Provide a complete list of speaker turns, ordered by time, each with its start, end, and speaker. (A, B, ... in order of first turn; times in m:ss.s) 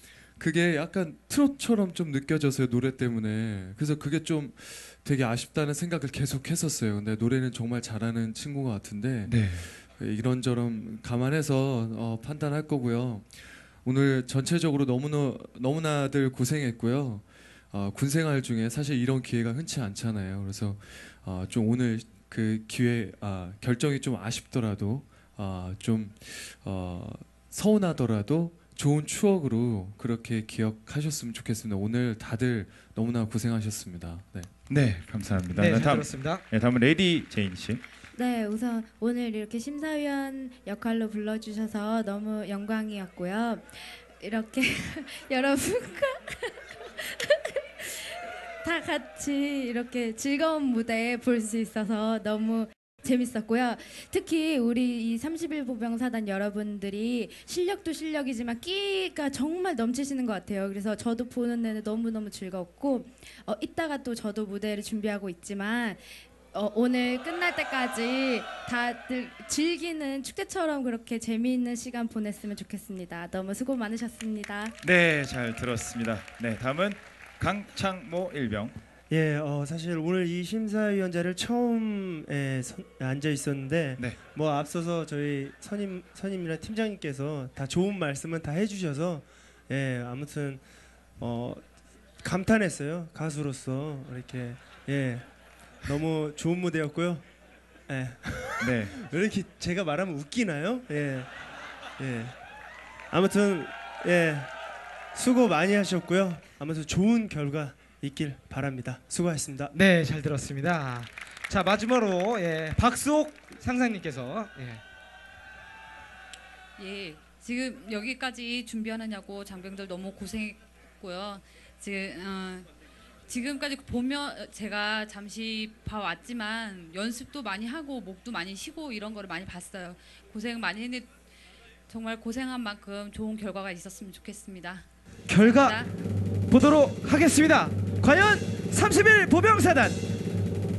0:00.4-0:34.5 A
0:09.3-0:09.7 B
0:34.7-0:37.8 B
0:35.5-0:36.4 C
0:38.1-1:14.8 D
1:14.8-1:18.8 B
1:19.1-1:30.6 E
1:31.2-1:31.6 E
1:32.2-1:35.3 E
1:35.8-1:37.2 E
1:37.9-1:41.3 E
1:38.6-1:39.0 B
1:42.0-1:42.4 E
1:43.1-1:44.5 E
1:45.2-1:49.8 E
1:49.7-1:54.8 C
1:56.8-2:02.7 F
2:03.3-2:11.1 F
2:11.9-2:15.9 F
2:15.3-2:15.8 C
2:16.5-2:20.0 C